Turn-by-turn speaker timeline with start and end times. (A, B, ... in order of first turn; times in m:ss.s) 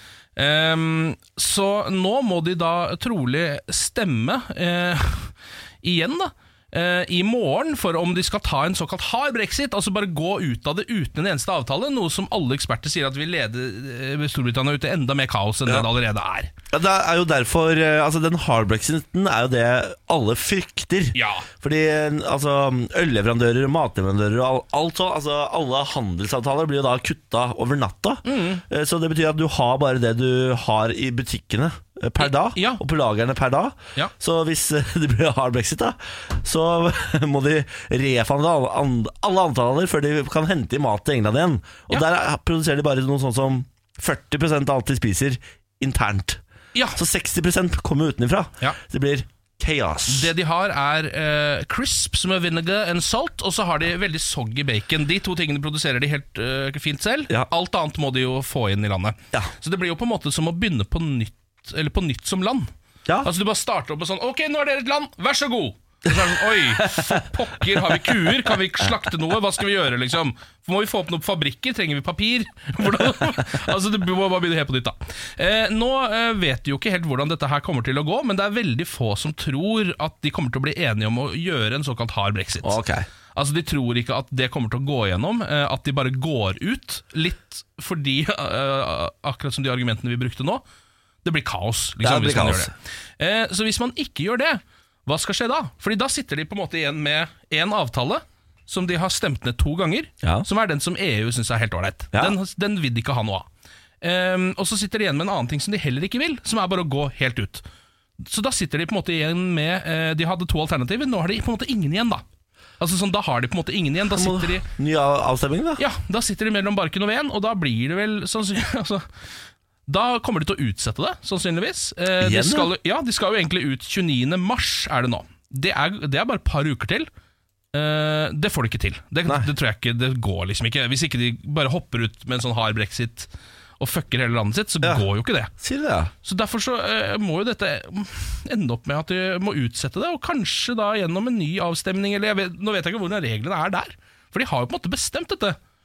0:00.4-0:16.5 A
0:16.7-0:46.4 B
0:21.1-0:21.5 A
0:28.2-0:28.6 A
0:32.2-0:32.8 A
0:46.9-0:50.3 B
0:50.1-1:02.7 A
1:03.2-1:22.8 A
1:06.8-1:08.5 B
1:22.6-1:23.1 B
1:23.3-1:30.6 A
1:31.2-1:43.5 A
1:32.0-1:32.7 B
1:40.2-1:40.5 B
1:44.0-1:47.6 A
1:48.2-1:52.2 A
1:52.8-1:54.7 A
1:54.0-1:55.8 B
1:55.8-1:59.0 A
1:59.9-2:07.1 A
2:02.2-2:02.7 B
2:07.7-2:15.5 A
2:14.8-2:16.1 B
2:16.2-2:25.6 A